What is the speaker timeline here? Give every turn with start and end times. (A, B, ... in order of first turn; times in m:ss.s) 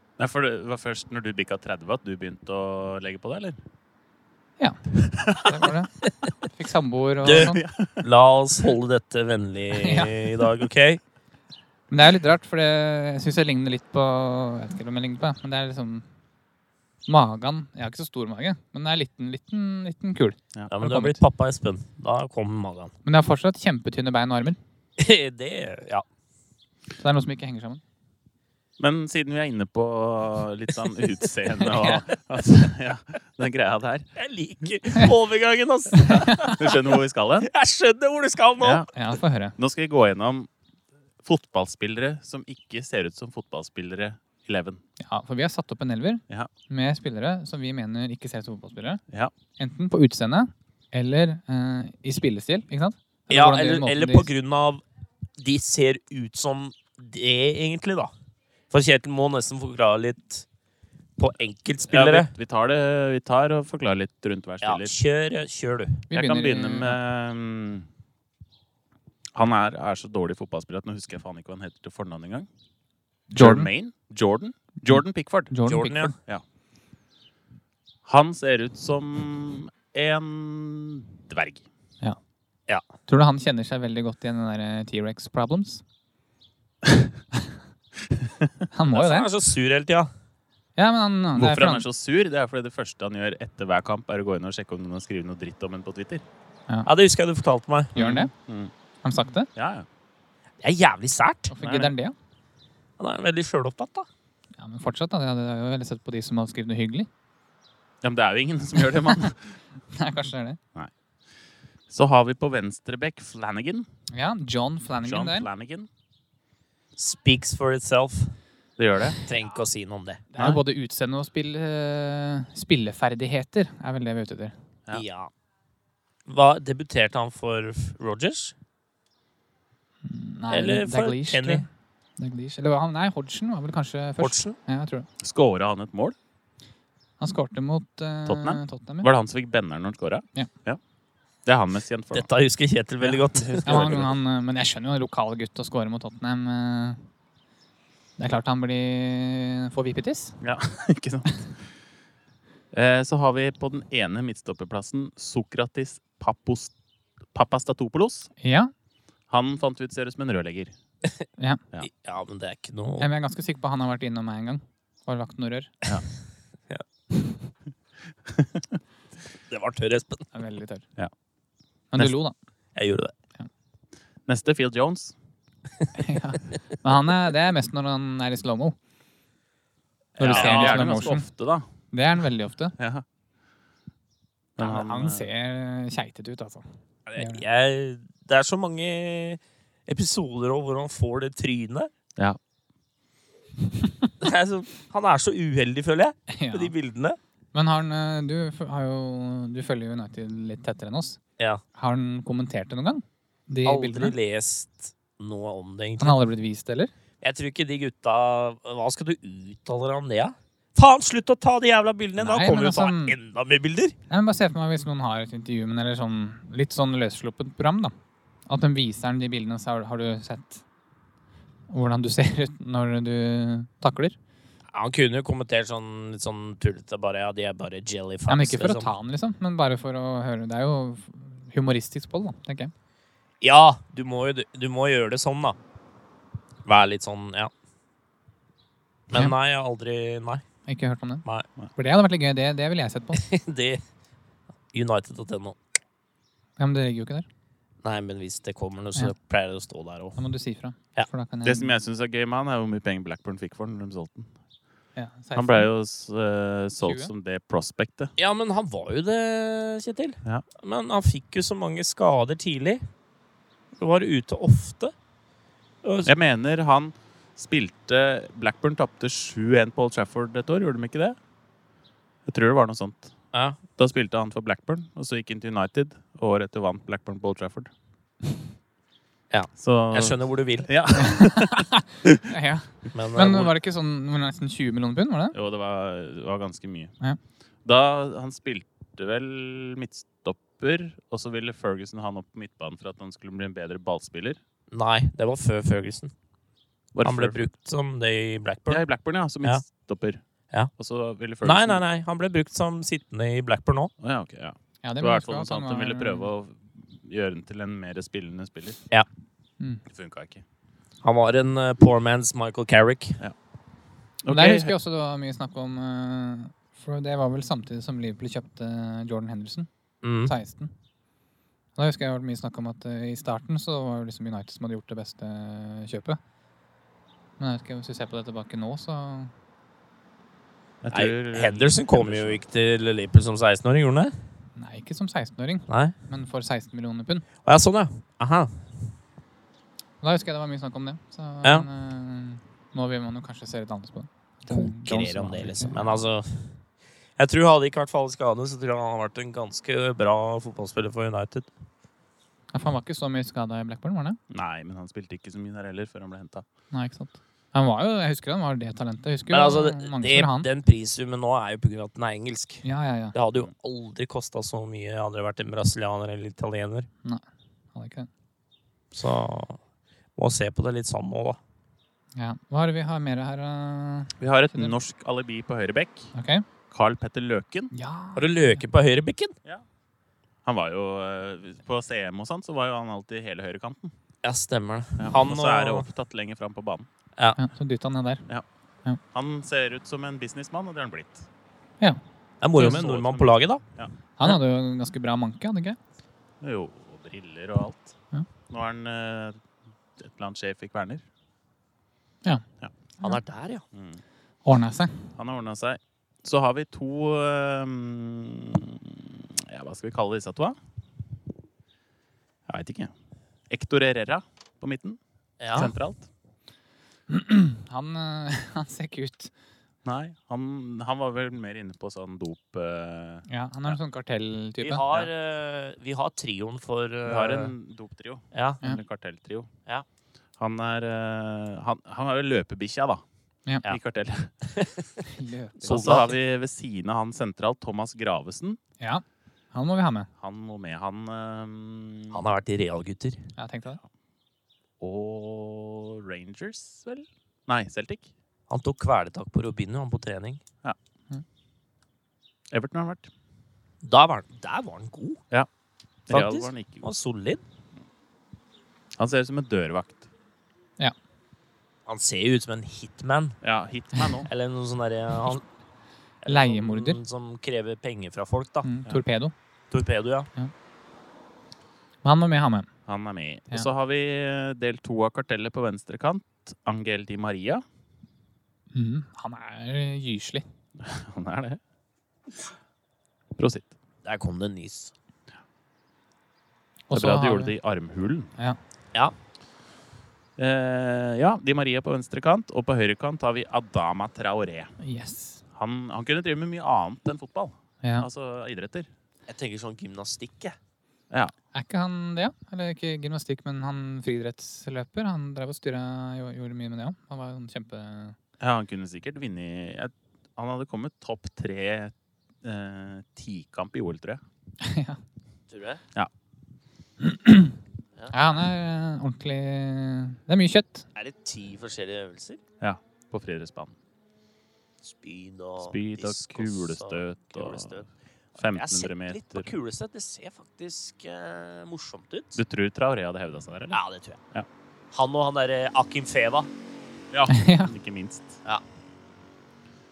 0:00.2-0:03.6 A
0:04.6-0:07.6 B
0:05.1-0:05.5 A
0:06.0-0:06.3 C
0:07.2-0:11.0 C
0:07.3-0:08.0 A
0:09.7-0:10.3 B
0:11.9-0:16.0 B
0:17.1-0:21.2 B
0:20.7-0:22.9 C
0:23.0-0:24.6 B
0:25.0-0:26.0 C
0:27.0-0:27.8 B
0:28.8-0:34.1 A
0:31.6-0:32.0 B
0:34.2-0:38.8 C
0:36.0-0:36.4 B
0:36.3-0:37.5 A
0:38.6-0:38.9 A
0:38.9-0:39.5 B
0:39.6-0:40.5 A
0:41.2-0:44.8 A
0:45.0-0:49.0 B
0:49.6-0:54.3 B
0:53.3-0:54.8 C
0:55.4-0:58.1 C
0:58.7-1:00.4 C
1:01.2-1:02.3 C
1:01.9-1:04.9 A
1:04.6-1:06.0 C
1:06.1-1:07.0 B
1:06.1-1:07.9 A
1:09.3-1:12.5 A
1:13.3-1:13.7 B
1:13.4-1:15.5 A
1:14.9-1:16.2 B
1:15.6-1:16.1 C
1:18.0-1:21.6 A
1:23.1-1:25.8 B
1:28.1-1:28.5 A
1:28.7-1:29.3 B
1:28.9-1:30.1 C
1:30.8-1:31.8 B
1:31.4-1:36.2 A
1:36.8-1:38.0 C
1:38.0-1:38.3 B
1:38.0-1:38.7 A
1:39.0-1:39.5 B
1:39.6-1:39.8 A
1:40.6-1:41.5 C
1:41.5-1:42.1 B
1:41.6-1:41.9 A
1:43.0-1:44.1 C
1:44.6-1:47.1 B
1:48.0-1:49.5 A
1:48.9-1:49.3 B
1:49.9-1:50.6 B
1:51.9-1:53.8 A
1:54.1-1:55.5 B
1:55.0-1:55.9 A
1:57.0-1:58.3 C
1:58.8-1:59.2 A
1:59.2-2:00.2 C
2:00.3-2:04.5 B
2:00.4-2:00.6 A
2:04.9-2:05.3 C
2:06.2-2:08.5 C
2:10.0-2:15.1 B
2:10.5-2:11.6 C
2:14.2-2:14.6 C
2:15.2-2:16.2 A
2:17.2-2:19.1 B
2:18.3-2:20.8 A
2:21.4-2:22.3 A
2:22.1-2:24.1 C
2:23.4-2:24.1 A
2:23.6-2:27.0 B
2:28.2-2:30.4 B
2:30.4-2:31.5 A
2:32.7-2:36.7 A
2:37.3-2:38.3 A
2:38.4-2:38.7 B
2:39.3-2:40.7 A
2:41.4-2:41.6 B
2:41.8-2:43.1 C
2:43.0-2:45.8 B
2:47.1-2:47.4 B
2:48.3-2:48.7 A
2:49.5-2:50.2 C
2:50.3-2:50.8 B
2:51.9-2:52.3 B
2:52.7-2:53.1 C
2:54.3-2:55.1 A
2:55.9-2:58.8 B
3:00.2-3:00.8 C
3:00.2-3:01.2 B
3:00.2-3:01.7 A
3:01.9-3:02.7 B
3:02.8-3:03.0 A
3:04.6-3:05.3 A
3:04.6-3:06.6 B
3:07.1-3:11.9 C
3:07.2-3:07.4 B
3:14.2-3:17.2 C
3:16.3-3:16.7 B
3:17.5-3:21.2 B
3:21.8-3:24.1 B
3:23.6-3:26.2 C
3:26.0-3:26.9 B
3:27.2-3:34.0 C
3:32.2-3:33.2 B
3:34.1-3:37.9 B
3:38.5-3:40.6 B
3:41.7-3:44.2 B
3:44.7-3:48.9 C
3:48.3-3:52.7 B
3:53.4-3:55.6 C
3:56.6-3:57.5 C
3:59.1-4:00.4 C
4:00.7-4:01.2 B
4:01.8-4:03.2 B
4:03.1-4:03.8 C
4:04.7-4:05.6 C
4:06.6-4:07.2 B
4:07.8-4:10.2 C
4:10.2-4:11.8 B
4:11.4-4:14.3 A
4:15.0-4:15.7 B
4:15.3-4:18.1 A
4:16.8-4:17.1 B
4:18.2-4:22.8 C
4:23.8-4:24.9 C
4:25.8-4:26.1 C
4:26.0-4:31.2 A
4:32.3-4:33.1 A
4:33.3-4:33.6 C
4:33.8-4:37.7 A
4:39.3-4:40.7 C
4:39.6-4:42.2 A
4:40.9-4:45.4 B
4:42.9-4:43.5 C
4:45.3-4:46.9 A
4:47.6-4:54.4 A
4:54.7-4:56.1 C
4:56.9-4:57.4 A
4:57.0-4:58.8 C
4:58.7-5:00.2 A
5:00.8-5:01.8 A
5:01.4-5:03.9 C
5:04.0-5:08.8 A
5:04.8-5:06.3 B
5:09.9-5:10.4 A
5:11.0-5:13.2 C
5:14.2-5:14.7 A
5:14.3-5:19.7 B
5:20.0-5:20.3 C
5:20.2-5:20.7 B
5:21.8-5:26.2 B
5:27.4-5:29.3 B
5:30.8-5:32.4 A
5:30.9-5:34.1 C
5:34.6-5:37.3 B
5:35.7-5:35.9 C
5:37.4-5:38.9 C
5:40.0-5:45.9 B
5:44.5-5:46.6 C
5:47.2-5:51.5 C
5:52.5-5:54.2 B
5:54.3-5:56.4 A
5:56.7-6:00.5 B
5:59.3-6:06.9 C
6:02.6-6:03.1 B
6:07.7-6:08.1 B
6:08.9-6:09.6 C
6:10.2-6:11.4 C
6:12.2-6:14.7 B
6:14.2-6:16.1 A
6:16.1-6:16.4 B
6:16.7-6:17.7 A
6:17.7-6:18.6 B
6:18.2-6:19.3 C
6:20.4-6:23.9 A
6:24.2-6:25.9 C
6:25.0-6:26.9 A
6:27.4-6:28.2 B
6:29.1-6:31.3 A
6:32.4-6:33.6 C
6:32.5-6:33.9 A
6:34.2-6:35.8 B
6:36.4-6:37.9 A
6:38.5-6:39.4 A
6:40.0-6:41.0 A
6:43.0-6:43.6 C
6:43.7-6:44.0 A
6:44.4-6:45.1 B
6:45.2-6:50.6 A
6:52.5-6:52.9 A
6:53.5-6:55.0 A
6:55.4-6:55.7 C
6:55.5-6:56.0 A
6:57.1-6:59.3 B
6:59.8-7:03.8 A
7:03.3-7:05.0 B
7:04.6-7:07.5 C
7:07.0-7:09.5 A
7:08.3-7:08.6 C
7:10.4-7:13.0 A
7:13.6-7:14.3 A
7:14.4-7:15.0 C
7:15.0-7:16.1 B
7:15.6-7:16.1 C
7:15.7-7:18.6 A
7:18.8-7:20.1 B
7:20.2-7:22.2 A
7:22.1-7:23.3 C
7:23.4-7:23.8 B
7:24.8-7:28.1 A
7:28.5-7:30.4 C
7:32.5-7:33.1 A
7:33.8-7:35.2 C
7:36.1-7:36.9 A
7:36.1-7:37.4 C
7:39.0-7:40.1 A
7:41.8-7:43.4 C
7:43.4-7:44.3 A
7:44.2-7:45.4 C
7:46.2-7:48.7 C
7:46.2-7:47.0 B
7:48.6-7:49.3 B
7:49.7-7:50.3 C
7:52.0-7:52.7 B
7:52.9-7:57.6 A
7:58.7-8:00.4 B
8:00.8-8:01.6 A
8:03.4-8:03.7 A
8:04.0-8:04.9 C
8:06.9-8:07.5 B
8:06.9-8:08.3 A
8:10.4-8:14.7 A
8:14.8-8:15.4 B
8:15.5-8:18.9 A
8:19.3-8:20.5 C
8:21.5-8:28.2 B
8:28.4-8:34.2 A
8:34.6-8:35.0 B
8:35.5-8:35.8 C
8:37.0-8:37.6 B
8:38.1-8:40.9 B
8:40.9-8:42.4 C
8:42.6-8:43.7 A
8:44.8-8:52.4 C
8:45.6-8:47.8 A
8:48.4-8:49.5 A
8:52.4-8:53.8 A
8:53.7-8:54.2 C
8:54.9-8:56.5 C
8:57.1-8:58.4 A
8:57.3-8:57.7 B